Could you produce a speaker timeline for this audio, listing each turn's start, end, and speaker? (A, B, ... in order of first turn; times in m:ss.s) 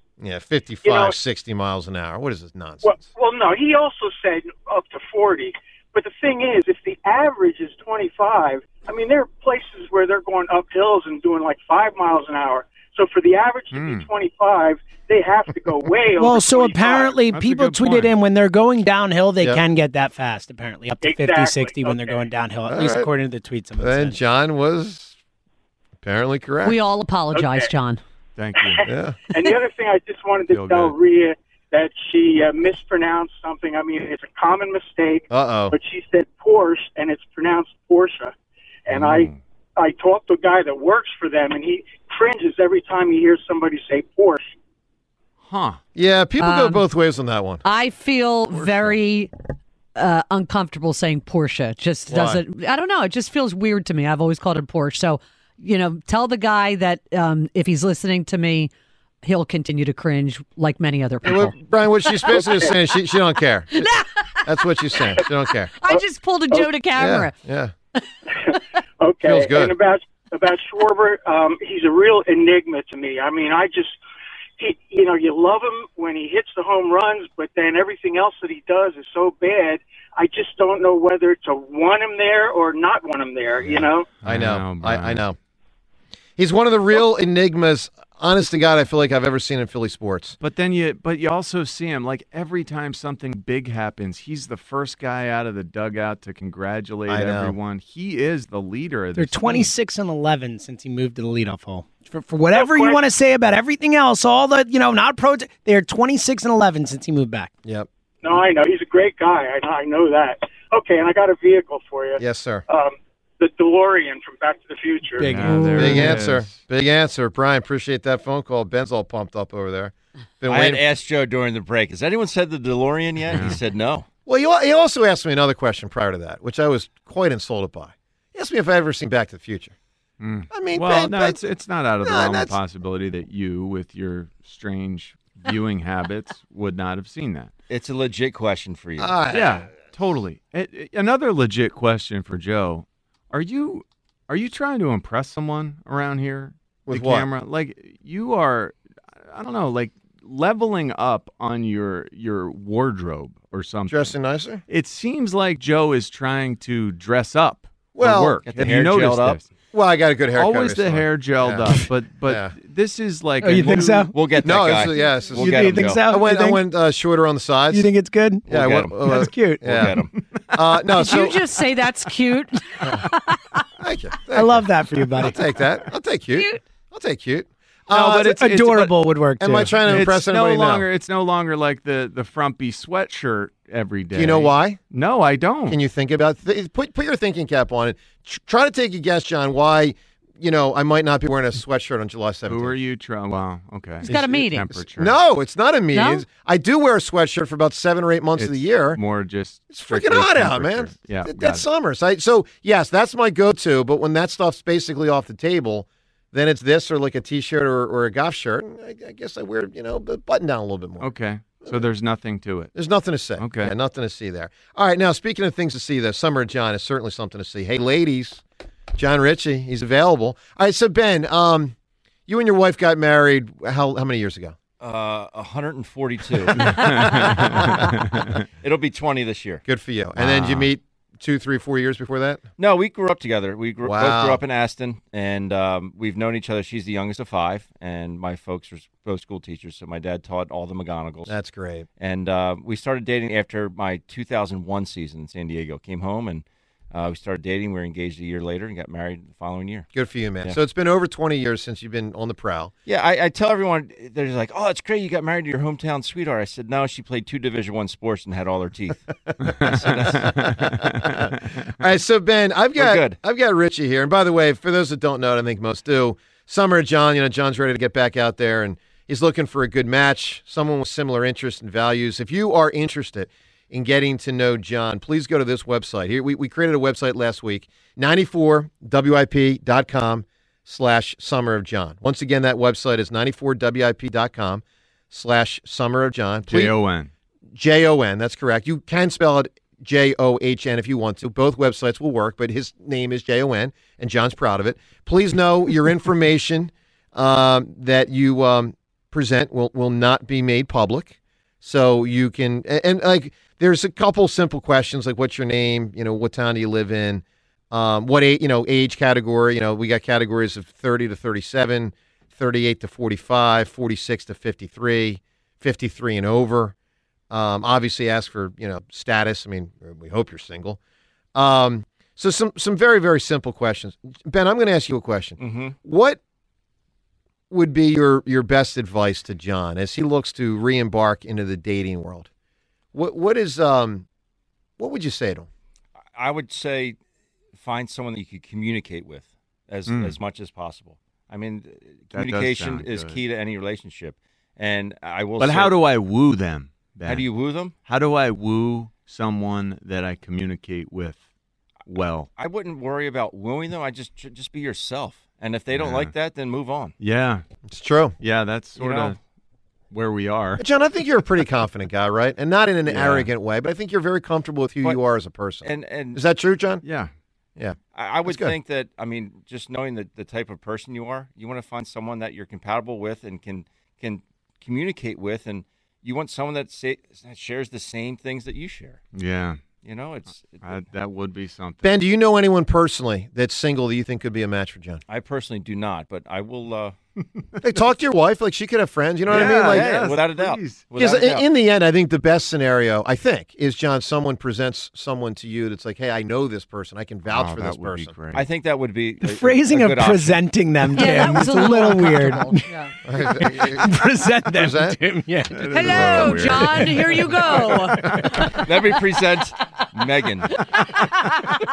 0:00.2-0:03.0 A
0:00.8-0:01.1 B
0:02.8-0:17.2 B
0:13.7-0:14.1 C
0:16.2-0:24.2 D
0:17.3-0:18.2 C
0:21.0-0:22.3 B
0:22.7-0:23.1 A
0:23.8-0:25.2 A
0:26.0-0:26.8 A
0:26.6-0:28.0 E
0:27.3-0:27.7 B
0:28.4-0:28.8 C
0:28.7-0:38.3 B
0:28.9-0:29.2 A
0:30.5-0:31.0 C
0:35.3-0:35.7 A
0:38.9-0:44.4 B
0:38.9-0:39.4 C
0:45.4-0:45.8 C
0:45.9-0:47.6 A
0:46.4-0:46.8 E
0:47.6-0:49.3 E
0:50.0-0:58.7 E
0:52.1-0:52.4 A
0:59.2-1:02.3 E
1:01.2-1:05.7 A
1:02.3-1:02.7 B
1:03.7-1:04.4 E
1:05.7-1:07.4 E
1:05.9-1:06.7 B
1:06.9-1:07.7 A
1:08.3-1:14.0 B
1:09.2-1:09.7 A
1:14.6-1:24.1 B
1:23.7-1:25.3 C
1:24.2-1:25.4 A
1:26.4-1:30.4 A
1:30.4-1:39.7 C
1:37.1-1:37.6 A
1:39.1-1:47.5 D
1:42.5-1:43.0 B
1:48.2-1:55.3 B
1:52.2-1:52.6 A
1:55.2-1:56.1 D
1:55.2-1:56.5 C
1:55.4-1:55.9 E
1:55.8-2:00.8 A
2:00.5-2:04.0 F
2:03.3-2:03.6 C
2:04.2-2:09.7 A
2:10.2-2:17.5 C
2:10.5-2:11.4 A
2:12.0-2:12.6 A
2:17.7-2:19.2 F
2:19.0-2:19.5 A
2:19.3-2:28.8 C
2:26.9-2:27.3 A
2:29.3-2:34.1 C
2:33.9-2:34.6 A
2:34.7-2:39.5 C
2:37.9-2:38.4 A
2:38.4-2:39.4 F
2:39.7-2:41.7 A
2:40.3-2:44.1 C
2:42.2-2:42.5 A
2:43.4-2:44.1 D
2:44.1-2:46.0 F
2:44.4-2:47.9 A
2:45.4-2:46.7 D
2:47.7-2:49.9 D
2:48.4-2:50.1 F
2:48.5-2:49.9 A
2:50.5-2:51.4 A
2:50.9-2:53.4 E
2:53.8-2:54.6 A
2:54.3-2:55.3 D
2:55.2-2:58.2 A
2:56.3-2:56.6 E
2:58.0-3:00.1 D
2:58.0-2:59.0 C
2:59.4-3:00.8 A
2:59.9-3:05.8 C
3:04.1-3:04.8 A
3:05.6-3:12.8 A
3:12.5-3:15.2 C
3:14.0-3:14.7 E
3:14.0-3:19.0 A
3:15.9-3:16.2 E
3:18.4-3:21.6 C
3:19.7-3:31.9 A
3:31.0-3:32.7 C
3:32.7-3:38.4 A
3:33.4-3:33.7 C
3:39.0-3:41.7 A
3:42.3-3:44.5 A
3:44.8-3:47.4 F
3:46.7-3:48.3 C
3:48.6-3:49.6 F
3:49.6-3:52.4 A
3:50.2-3:50.7 C
3:52.6-4:01.4 F
3:53.8-3:54.4 A
4:01.3-4:01.8 A
4:02.0-4:09.9 F
4:09.9-4:12.7 A
4:12.8-4:20.5 F
4:21.8-4:46.8 A
4:22.8-4:23.2 F
4:46.5-4:47.1 C
4:47.5-5:16.7 A
5:17.3-5:20.8 A
5:21.3-5:26.2 A
5:25.4-5:25.7 F
5:27.5-5:32.3 A
5:32.9-5:34.1 A
5:34.8-5:35.5 A
5:36.1-5:37.0 F
5:37.6-5:45.8 F
5:39.9-5:40.2 C
5:42.1-5:43.2 C
5:45.4-5:47.3 C
5:47.1-5:47.8 F
5:47.8-5:51.2 C
5:51.9-5:52.3 C
5:52.4-5:56.9 F
5:55.7-5:56.1 C
5:57.0-5:57.4 C
5:57.7-5:58.2 A
5:58.2-5:59.2 C
5:58.8-5:59.2 F
5:59.9-6:00.6 C
6:00.6-6:06.8 A
6:02.9-6:03.3 C
6:05.6-6:06.2 F
6:06.8-6:07.1 C
6:07.6-6:08.6 A
6:07.9-6:19.0 F
6:19.1-6:19.6 C
6:19.8-6:20.8 F
6:20.6-6:21.9 C
6:21.8-6:25.0 A
6:25.1-6:27.0 F
6:27.6-6:29.9 A
6:29.3-6:31.5 F
6:29.3-6:30.8 C
6:31.0-6:38.1 A
6:37.3-6:38.5 C
6:38.3-6:41.1 F
6:39.2-6:42.7 D
6:40.9-6:42.9 E
6:43.0-6:43.9 A
6:43.3-6:47.2 D
6:44.5-6:45.0 A
6:45.5-6:47.9 C
6:45.6-6:48.5 E
6:48.6-6:50.5 F